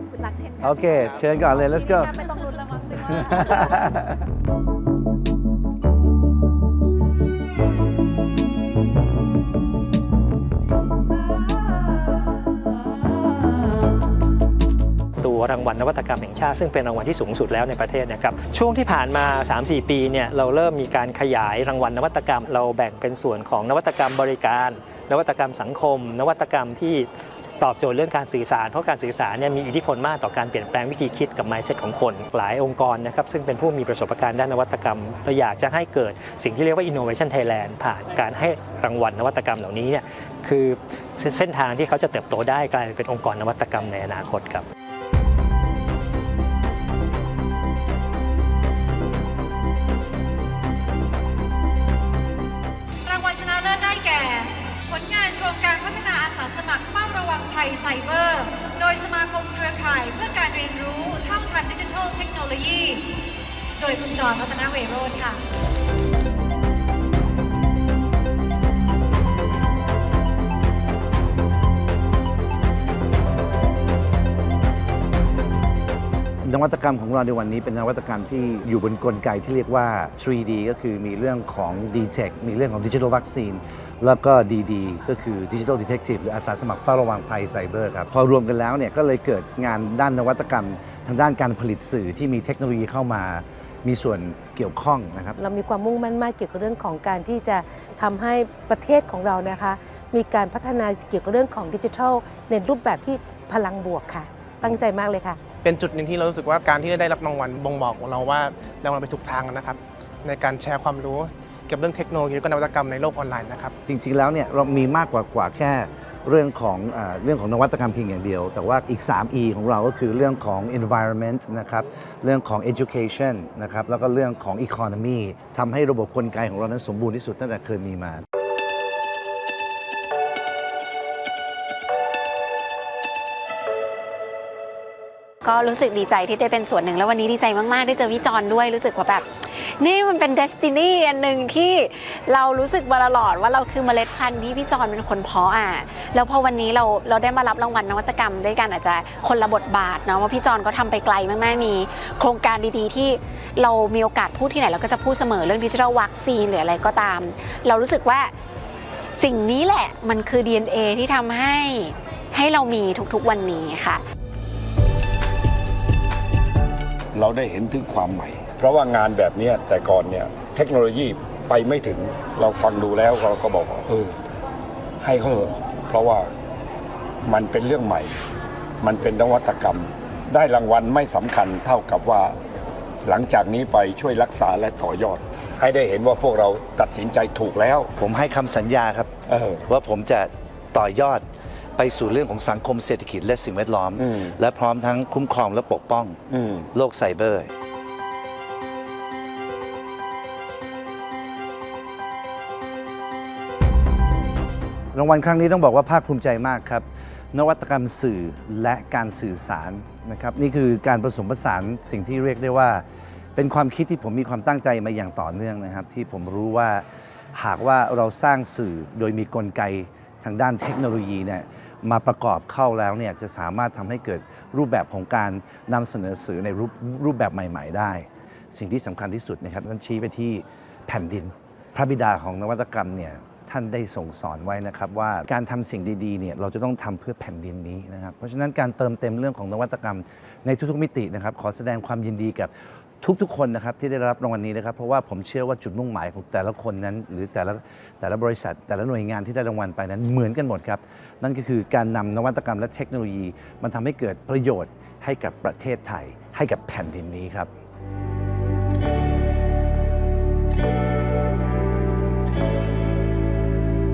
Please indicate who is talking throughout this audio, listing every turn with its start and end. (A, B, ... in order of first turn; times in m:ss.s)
0:00.1-0:03.9 A
0:00.6-0:02.2 B
0:03.1-0:04.2 B
0:15.2-0:27.1 C
0:27.6-0:44.6 C
0:53.0-1:03.1 D
1:03.8-1:05.4 D
1:16.4-1:35.4 B
1:35.4-1:45.4 E
1:45.6-1:53.7 F
1:53.9-2:08.2 B
2:15.4-2:38.3 G
2:39.2-2:44.0 G
2:47.1-2:54.2 H
2:55.0-2:56.3 H
2:57.2-2:58.1 H
2:58.8-3:02.4 H
3:03.0-3:07.9 H
3:08.0-3:09.1 B
3:09.3-3:09.6 H
3:09.7-3:11.3 B
3:11.8-3:16.2 B
3:14.0-3:14.3 H
3:16.3-3:16.7 H
3:16.7-3:17.5 B
3:24.9-3:32.8 B
3:33.4-4:17.5 B